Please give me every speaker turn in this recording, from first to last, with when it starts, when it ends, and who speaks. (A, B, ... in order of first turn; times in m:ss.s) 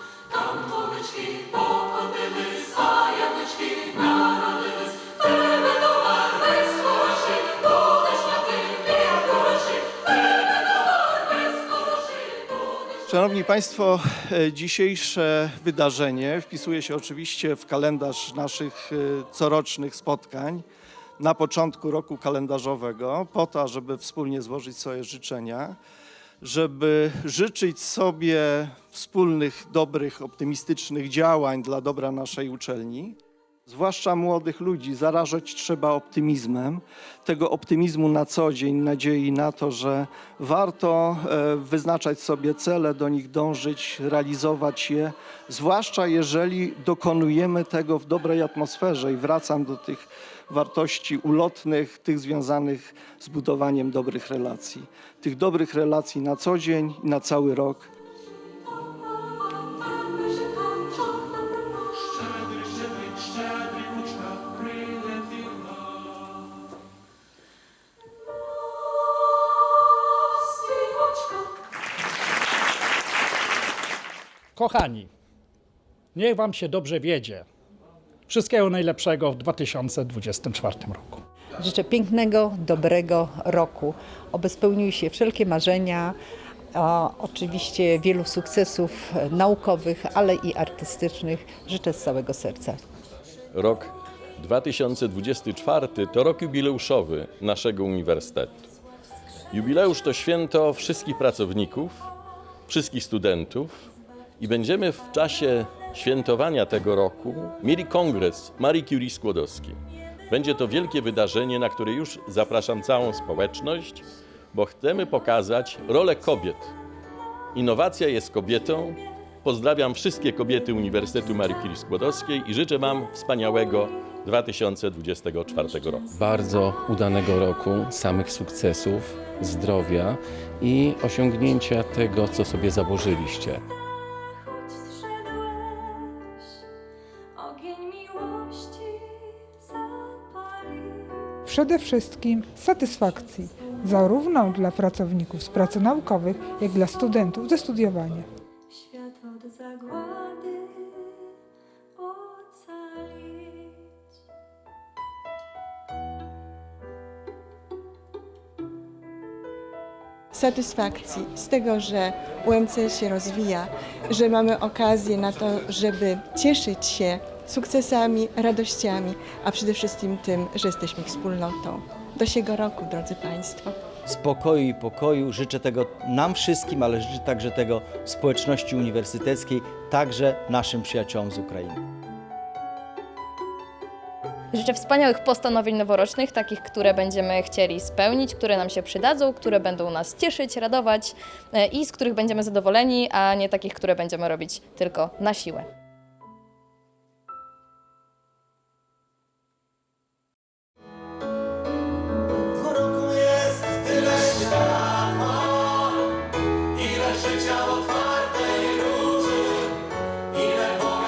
0:00.3-0:01.8 A
0:02.3-0:04.2 A
0:13.0-0:20.7 B
0:21.2-0:25.8 B
0:26.4-0:57.9 B
1:14.6-1:15.1 C
1:16.1-1:17.5 C
1:18.3-1:21.2 C
1:21.6-1:26.2 D
1:26.8-1:32.8 D
1:33.6-1:38.6 E
1:39.5-1:42.1 E
1:42.7-1:43.8 E
1:44.4-1:49.8 E
1:50.3-1:56.7 E
1:57.6-2:06.1 E
2:06.1-2:13.6 F
2:15.2-2:16.3 A
2:17.4-2:21.2 A
2:21.5-2:28.3 G
2:28.9-2:31.3 A
2:32.0-2:33.8 A
2:40.3-2:53.9 H
2:54.1-3:01.8 I
3:04.5-3:15.7 J